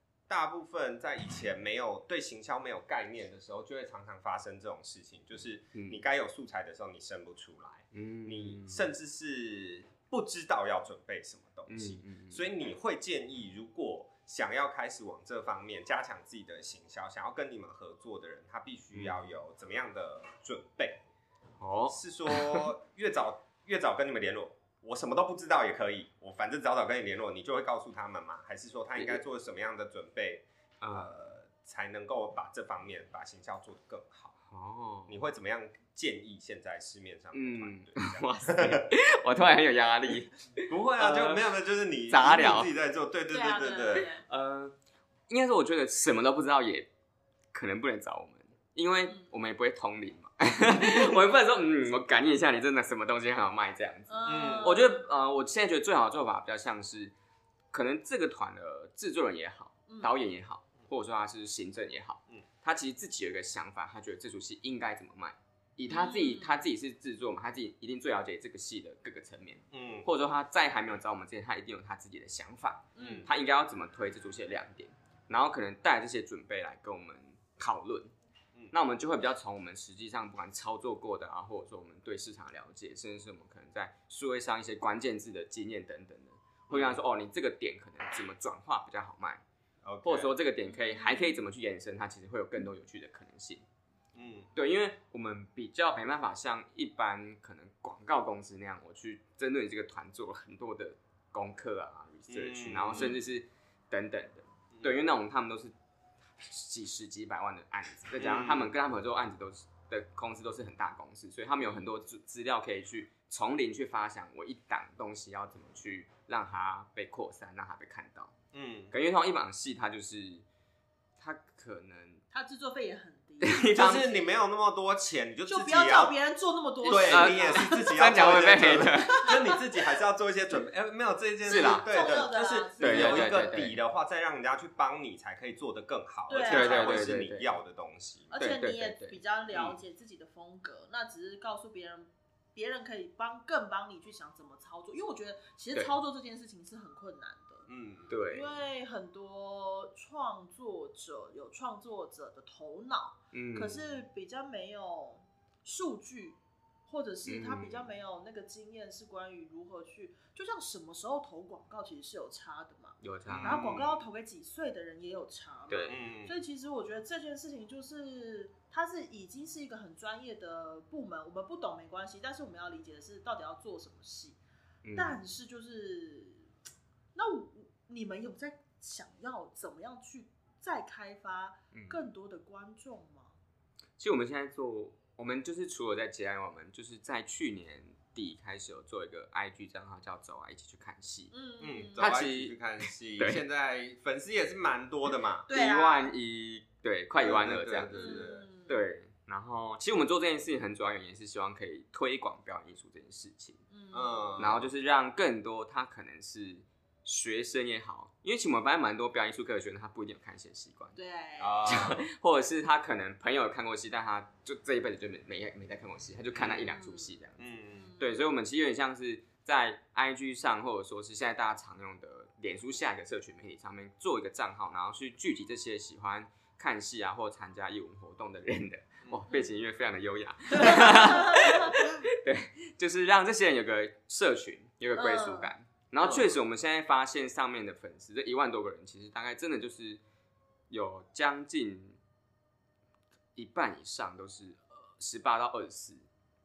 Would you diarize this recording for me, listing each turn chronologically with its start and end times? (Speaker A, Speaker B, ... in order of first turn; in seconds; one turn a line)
Speaker A: 0.3-21.0
Speaker B: 5.7-6.0
Speaker B: 7.9-8.8
Speaker B: 11.7-12.4
Speaker B: 18.9-19.2
Speaker B: 21.6-22.7
Speaker A: 21.9-34.4
Speaker B: 30.8-31.1
Speaker B: 34.5-35.2
Speaker A: 35.1-38.9
Speaker B: 37.3-41.5
Speaker A: 40.6-44.1
Speaker B: 42.1-42.7
Speaker C: 43.3-44.2
Speaker B: 44.0-44.8
Speaker B: 45.3-46.9
Speaker B: 47.5-57.1
Speaker C: 54.1-55.0
Speaker A: 54.2-54.9
Speaker B: 57.7-78.1
Speaker C: 59.9-60.1
Speaker C: 65.9-66.6
Speaker A: 69.7-70.1
Speaker C: 73.0-73.3
Speaker A: 73.0-73.3
Speaker B: 78.7-89.4
Speaker A: 86.7-87.0
Speaker A: 89.8-90.3
Speaker B: 90.0-93.7
Speaker C: 90.8-91.4
Speaker A: 94.1-94.5
Speaker B: 94.5-105.7
Speaker A: 102.3-103.2
Speaker A: 104.7-105.0
Speaker B: 106.4-118.3
Speaker A: 108.2-108.7
Speaker A: 111.6-111.9
Speaker A: 118.5-118.9
Speaker B: 118.9-120.5
Speaker B: 121.2-122.2
Speaker C: 122.3-124.0
Speaker B: 123.4-124.1
Speaker A: 123.7-126.2
Speaker C: 125.5-128.0
Speaker A: 126.8-138.3
Speaker B: 126.9-129.3
Speaker C: 129.1-129.6
Speaker B: 131.5-131.9
Speaker C: 131.5-133.5
Speaker B: 132.8-133.8
Speaker C: 136.3-137.2
Speaker B: 136.5-137.5
Speaker C: 138.3-147.7
Speaker B: 138.4-139.7
Speaker A: 147.7-148.1
Speaker B: 148.1-148.6
Speaker C: 148.3-174.4
Speaker B: 153.3-154.0
Speaker B: 157.2-157.9
Speaker B: 163.0-163.6
Speaker A: 163.3-164.0
Speaker B: 165.7-166.0
Speaker A: 165.9-166.4
Speaker B: 174.8-175.2
Speaker C: 175.0-176.5
Speaker C: 177.2-183.4
Speaker B: 181.7-182.0
Speaker B: 184.0-191.3
Speaker C: 191.3-192.0
Speaker A: 191.6-195.5
Speaker B: 192.0-192.6
Speaker B: 193.2-193.4
Speaker C: 195.5-196.1
Speaker B: 195.5-203.6
Speaker A: 197.2-198.5
Speaker C: 197.9-198.8
Speaker C: 203.7-204.4
Speaker A: 203.9-204.7
Speaker B: 204.4-211.0
Speaker C: 211.0-211.7
Speaker A: 211.4-212.0
Speaker B: 211.7-217.4
Speaker A: 216.4-216.6
Speaker C: 216.5-217.2
Speaker A: 217.4-217.9
Speaker C: 217.8-218.2
Speaker B: 218.0-240.0
Speaker C: 230.6-231.7
Speaker C: 235.0-235.5
Speaker A: 236.0-236.3
Speaker B: 240.7-242.0
Speaker B: 243.3-246.0